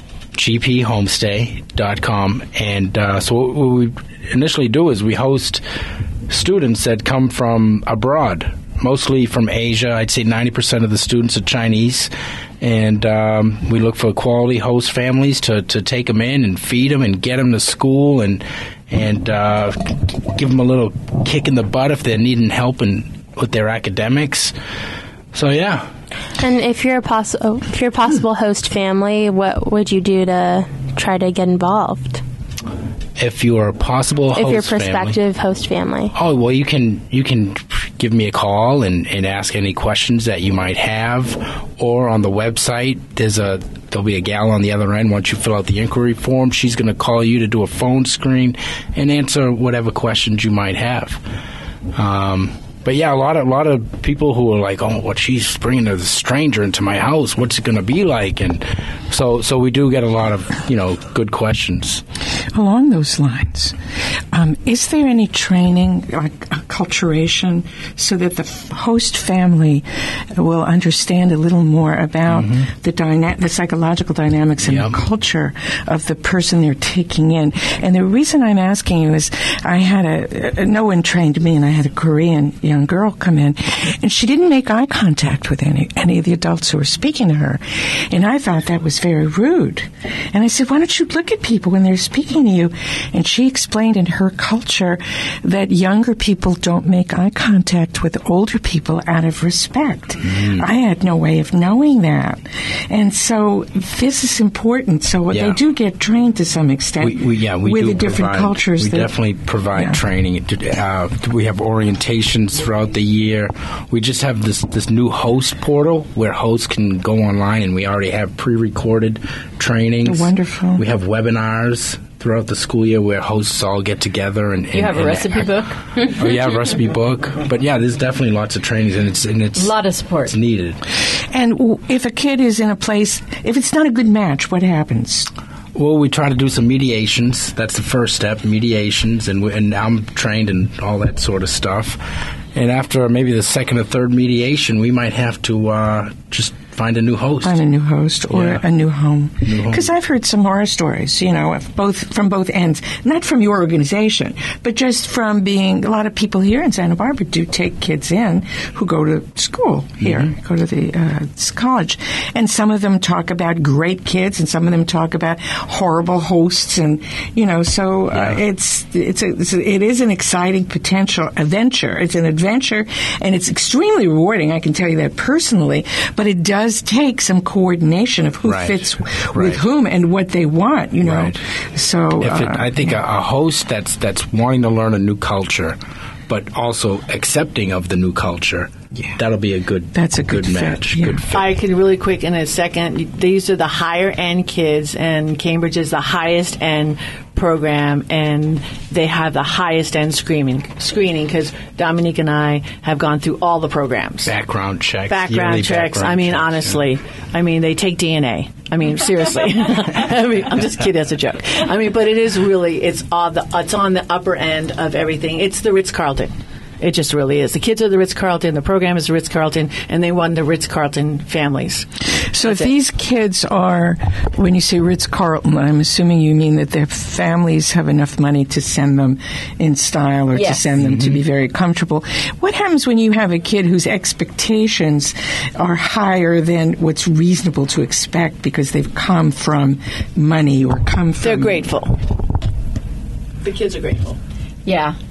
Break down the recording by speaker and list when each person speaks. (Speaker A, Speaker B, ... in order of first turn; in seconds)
Speaker A: 0.3-5.6, 6.3-24.5, 25.3-25.9, 33.2-35.2, 36.1-51.2, 51.9-62.0, 72.3-72.7, 74.7-75.0, 100.2-100.7, 105.3-105.6, 107.0-129.7, 130.3-130.8, 135.8-142.0, 142.5-147.6, 148.3-148.6, 149.4-149.9, 160.0-160.3, 178.4-179.6, 181.0-181.4, 182.2-185.8, 186.3-191.4, 204.3-206.8, 230.8-231.2
Speaker B: 26.4-32.2, 34.4-36.1
Speaker C: 62.5-109.2, 109.8-110.0, 120.0-120.8, 131.1-135.3, 147.4-183.0, 189.9-191.2, 222.2-241.7
Speaker D: 124.7-125.8, 129.6-130.3, 244.7-245.0
Speaker E: 191.3-204.3, 205.1-221.9, 222.4-222.7, 241.2-242.0, 243.4-244.2